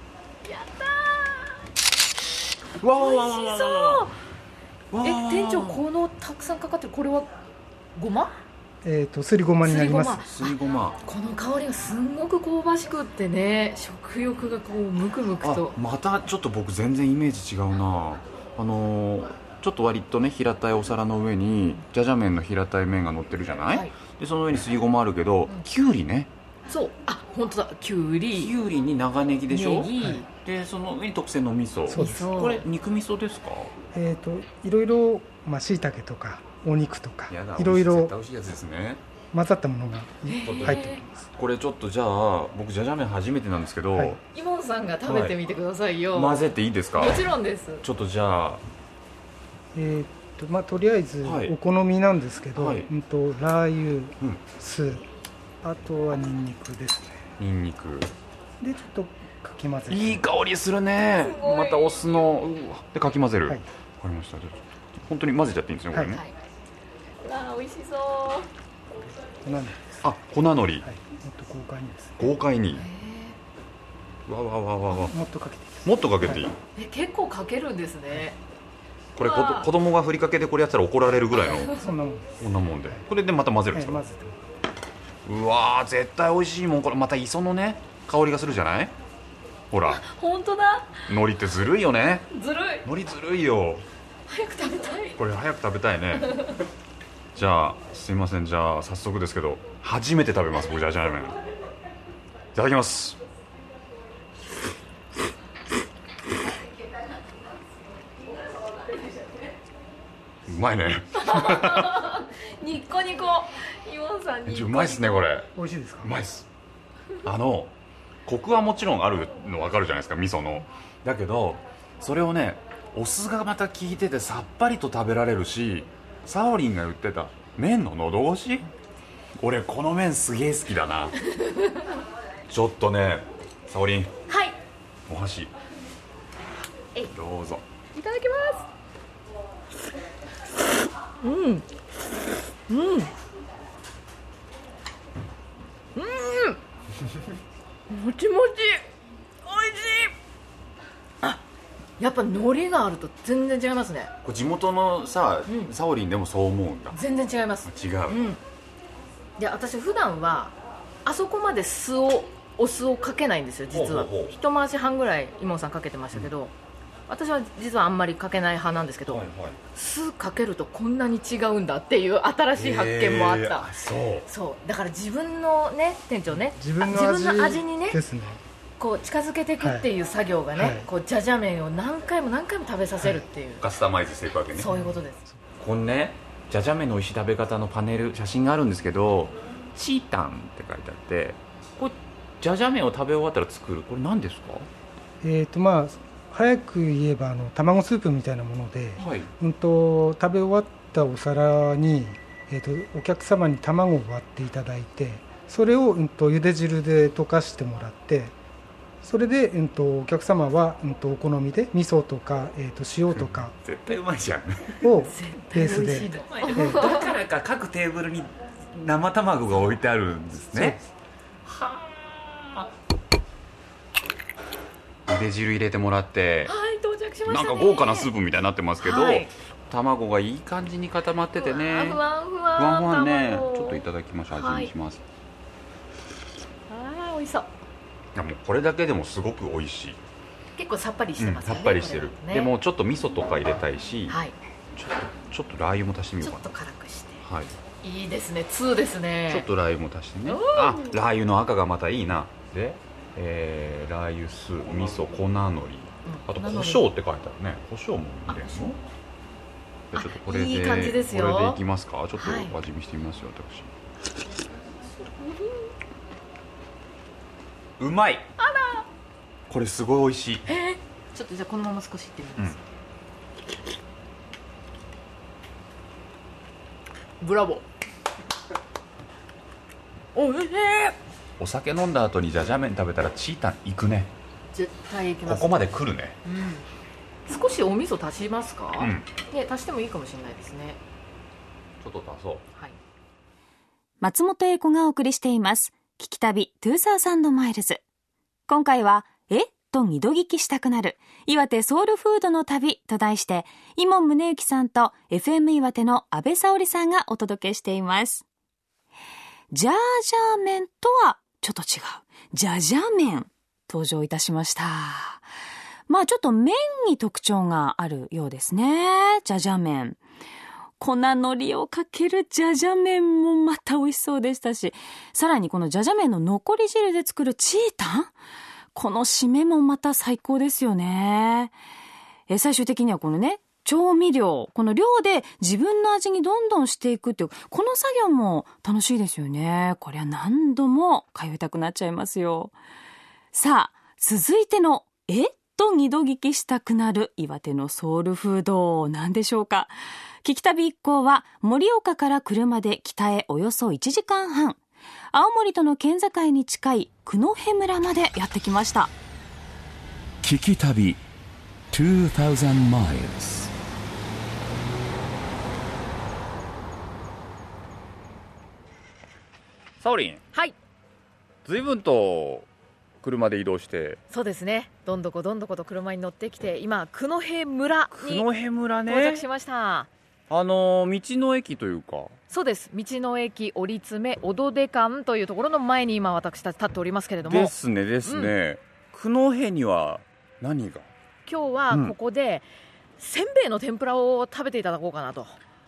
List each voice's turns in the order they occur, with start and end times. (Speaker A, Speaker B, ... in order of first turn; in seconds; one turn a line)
Speaker A: 0.5-1.5
Speaker B: 2.8-4.0
Speaker A: 3.0-4.1
Speaker B: 4.9-5.8
Speaker A: 5.0-7.3
Speaker A: 8.0-8.3
Speaker C: 8.8-10.2
Speaker A: 9.6-10.5
Speaker B: 9.9-11.0
Speaker A: 11.1-15.8
Speaker B: 15.4-26.3
Speaker A: 23.7-23.9
Speaker A: 26.7-28.5
Speaker B: 28.3-33.7
Speaker A: 29.5-30.3
Speaker C: 31.9-32.4
Speaker A: 32.0-32.6
Speaker C: 33.9-38.1
Speaker B: 37.3-39.0
Speaker C: 39.3-41.2
Speaker A: 40.3-41.0
Speaker B: 40.4-44.2
Speaker A: 44.3-46.4
Speaker B: 45.1-45.4
Speaker B: 46.1-47.3
Speaker A: 47.0-47.8
Speaker B: 47.8-48.6
Speaker C: 49.7-55.0
Speaker B: 51.2-51.5
Speaker B: 52.6-52.9
Speaker C: 55.6-57.3
Speaker B: 57.4-58.1
Speaker C: 58.6-60.2
Speaker B: 59.9-66.2
Speaker A: 61.2-62.0
Speaker C: 65.9-66.2
Speaker A: 67.2-68.5
Speaker C: 69.4-70.2
Speaker B: 70.0-70.9
Speaker C: 70.8-72.2
Speaker B: 72.2-72.9
Speaker A: 72.8-73.4
Speaker B: 74.3-75.2
Speaker C: 74.9-76.4
Speaker B: 75.8-76.5
Speaker A: 76.8-78.4
Speaker B: 79.2-81.8
Speaker A: 79.2-79.7
Speaker C: 81.8-82.4
Speaker B: 82.4-84.0
Speaker C: 83.7-84.3
Speaker B: 85.2-88.9
Speaker B: 89.7-90.0
Speaker A: 89.8-91.1
Speaker B: 91.1-92.3
Speaker A: 92.3-92.9
Speaker B: 92.8-93.9
Speaker A: 94.3-95.2
Speaker B: 95.2-96.6
Speaker B: 97.3-101.4
Speaker B: 102.5-103.2
Speaker B: 110.5-112.0
Speaker A: 111.2-115.2
Speaker B: 114.5-115.5
Speaker C: 115.5-116.2
Speaker B: 116.0-116.5
Speaker B: 117.2-117.7
Speaker B: 118.2-128.7
Speaker B: 129.4-131.2
Speaker A: 131.4-131.7
Speaker B: 132.5-134.1
Speaker A: 134.3-134.6
Speaker B: 135.1-135.5
Speaker B: 137.1-137.6
Speaker A: 138.0-138.7
Speaker A: 141.2-141.7
Speaker A: 142.7-143.1
Speaker A: 145.9-146.6
Speaker A: 147.9-148.8
Speaker A: 149.4-150.1
Speaker A: 152.0-154.1
Speaker B: 154.2-157.0
Speaker A: 155.5-155.7
Speaker A: 156.9-158.4
Speaker B: 157.7-158.3
Speaker A: 159.4-166.5
Speaker B: 163.7-164.3
Speaker A: 167.1-169.2
Speaker B: 169.1-169.6
Speaker A: 169.8-173.7
Speaker B: 172.6-174.3
Speaker A: 174.3-178.0
Speaker C: 176.5-178.4
Speaker A: 178.8-183.7
Speaker C: 179.6-179.8
Speaker C: 180.6-180.9
Speaker B: 183.6-184.8
Speaker A: 184.6-185.2
Speaker B: 185.6-194.7
Speaker C: 195.2-208.3
Speaker B: 199.0-199.3
Speaker C: 209.0-213.5
Speaker B: 213.2-214.8
Speaker C: 214.8-216.9
Speaker A: 215.1-217.1
Speaker B: 215.9-220.8
Speaker B: 221.4-222.7
Speaker B: 225.1-226.5
Speaker A: 226.5-228.1
Speaker B: 227.3-232.0
Speaker A: 228.8-229.3
Speaker A: 231.3-233.8
Speaker B: 232.6-235.0
Speaker A: 234.3-234.7
Speaker A: 236.7-237.5
Speaker B: 238.2-240.0
Speaker A: 240.6-242.5
Speaker B: 241.2-244.2
Speaker A: 244.1-244.4
Speaker B: 244.8-246.5
Speaker A: 246.2-247.2
Speaker B: 247.2-247.6
Speaker A: 247.8-249.5
Speaker B: 249.3-258.8
Speaker A: 250.3-251.0
Speaker A: 256.1-256.9
Speaker A: 258.3-258.7
Speaker B: 259.9-263.7
Speaker A: 259.9-261.6
Speaker A: 262.2-262.5
Speaker A: 265.0-265.7
Speaker B: 267.8-268.3
Speaker A: 268.4-268.9
Speaker B: 269.5-270.4
Speaker A: 270.5-272.6
Speaker A: 277.2-277.6
Speaker A: 280.1-281.0
Speaker B: 281.4-284.1
Speaker A: 284.5-285.6
Speaker B: 285.2-286.2
Speaker A: 286.2-286.7
Speaker A: 287.3-290.8
Speaker B: 288.8-289.1
Speaker B: 291.8-292.4
Speaker D: 294.0-297.8
Speaker D: 298.5-308.2
Speaker D: 309.5-315.2
Speaker D: 315.9-320.0
Speaker D: 320.8-328.1
Speaker D: 328.8-331.5
Speaker D: 332.3-342.6
Speaker D: 343.3-354.6
Speaker D: 355.1-358.9
Speaker E: 360.2-361.0
Speaker E: 361.7-363.5
Speaker B: 369.8-370.2
Speaker B: 371.4-372.5
Speaker B: 373.0-374.0
Speaker A: 374.1-378.3
Speaker B: 377.9-379.2
Speaker A: 378.9-379.9
Speaker B: 380.3-382.1
Speaker A: 382.3-387.5
Speaker B: 387.2-390.9
Speaker A: 388.1-388.3
Speaker A: 391.3-392.5
Speaker B: 391.7-392.0
Speaker A: 393.0-395.4